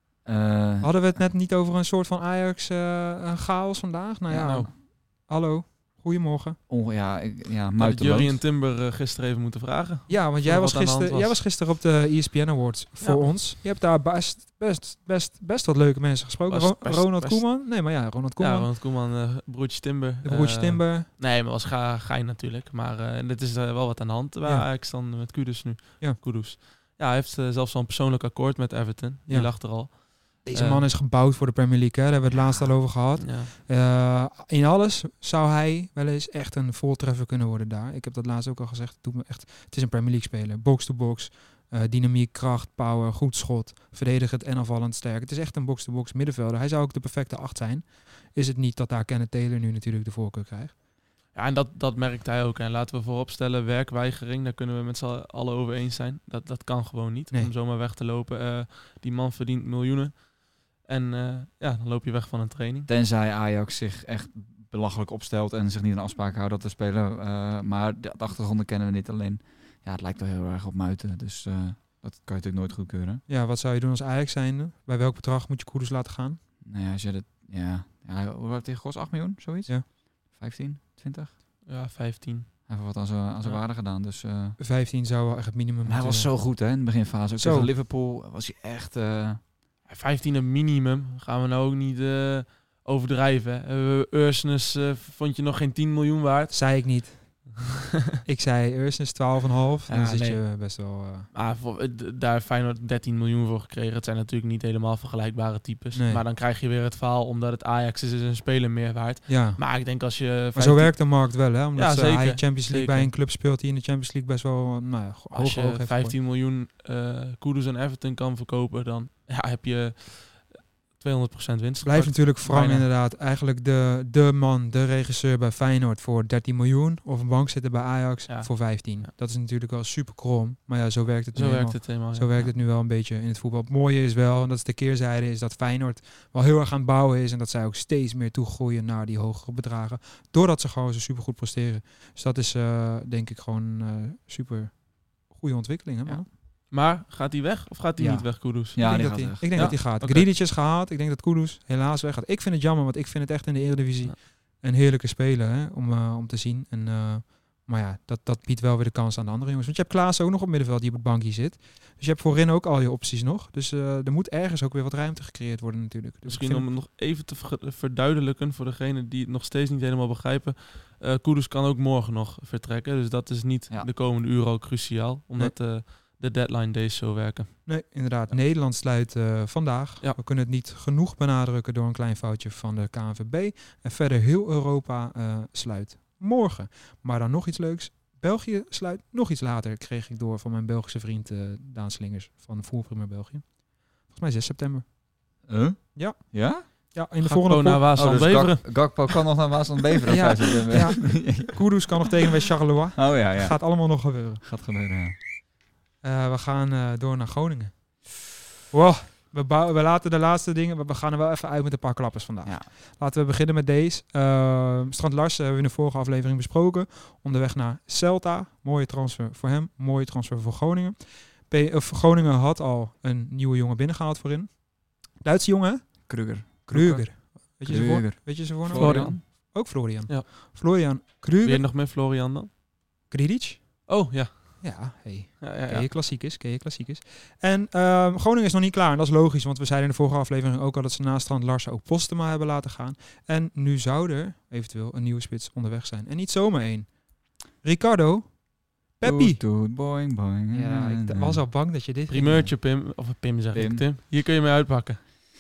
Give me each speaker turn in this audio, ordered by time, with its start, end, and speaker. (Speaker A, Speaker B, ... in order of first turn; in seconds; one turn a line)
Speaker A: 0.2-1.2
Speaker B: 0.8-6.6
Speaker C: 4.3-4.7
Speaker A: 6.7-8.4
Speaker C: 7.8-11.3
Speaker B: 10.1-18.7
Speaker C: 13.0-13.3
Speaker C: 16.5-17.7
Speaker C: 18.4-30.9
Speaker B: 20.2-21.1
Speaker B: 24.4-24.7
Speaker B: 29.3-50.8
Speaker C: 33.2-33.5
Speaker C: 51.3-62.9
Speaker A: 62.9-73.2
Speaker B: 73.3-76.4
Speaker A: 76.6-81.3
Speaker C: 81.7-82.6
Speaker A: 82.7-84.6
Speaker B: 84.6-86.3
Speaker A: 85.9-89.4
Speaker B: 87.4-87.7
Speaker C: 89.9-97.7
Speaker B: 96.5-97.5
Speaker B: 98.2-101.3
Speaker C: 99.9-100.5
Speaker C: 101.3-113.1
Speaker B: 105.9-106.2
Speaker B: 109.3-109.8
Speaker B: 110.5-116.2
Speaker C: 115.3-122.9
Speaker B: 121.8-146.3
Speaker C: 128.3-129.1
Speaker C: 131.3-132.4
Speaker C: 146.7-150.3
Speaker B: 148.0-166.7
Speaker A: 148.7-149.8
Speaker C: 166.2-177.6
Speaker B: 177.7-194.9
Speaker A: 195.5-196.7
Speaker B: 195.9-197.8
Speaker C: 197.2-199.1
Speaker A: 197.9-201.6
Speaker B: 200.1-204.4
Speaker A: 202.9-205.2
Speaker B: 206.0-208.1
Speaker B: 208.7-231.7
Speaker A: 226.1-226.7
Speaker C: 226.7-227.1
Speaker A: 227.6-229.2
Speaker C: 228.7-229.5
Speaker C: 231.4-232.5
Speaker B: 233.1-233.9
Speaker C: 233.9-234.8
Speaker B: 234.6-247.0
Speaker C: 235.4-235.9
Speaker B: 247.6-249.4
Speaker A: 249.0-251.5
Speaker B: 250.5-252.5
Speaker C: 252.1-255.0
Speaker A: 253.5-253.8